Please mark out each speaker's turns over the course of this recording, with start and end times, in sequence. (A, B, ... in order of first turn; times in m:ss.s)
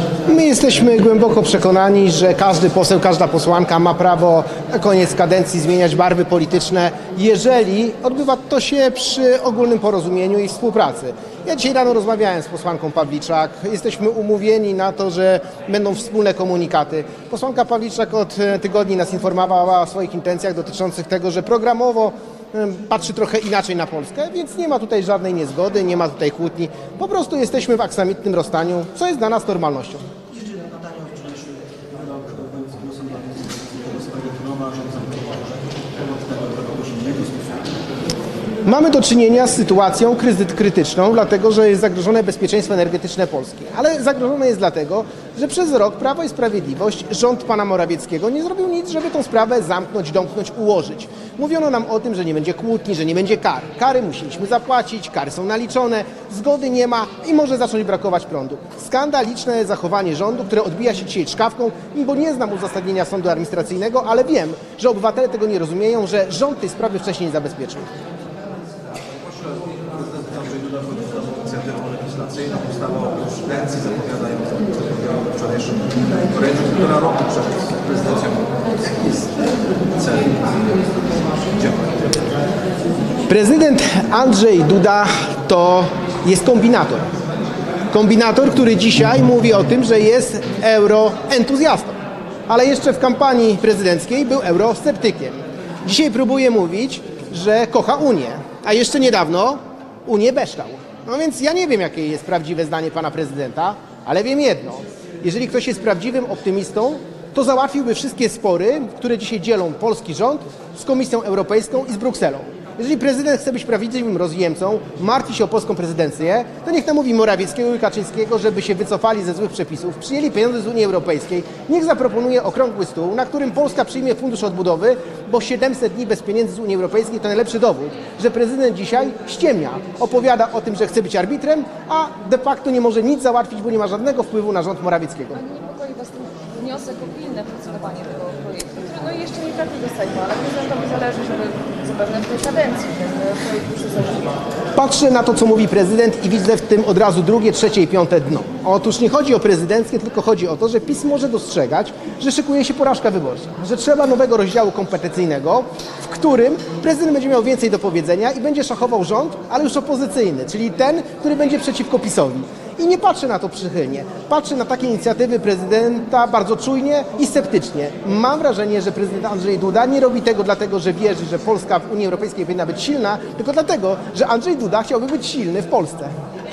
0:00.2-0:30.0 A
0:30.4-0:37.7 B
0:38.6-1:07.9 A
1:09.9-1:19.3 C
1:20.0-1:20.8 C
1:21.5-1:22.1 C
1:23.3-1:27.1 A
1:27.9-2:15.4 A
2:15.4-2:24.4 D
2:24.7-2:56.1 A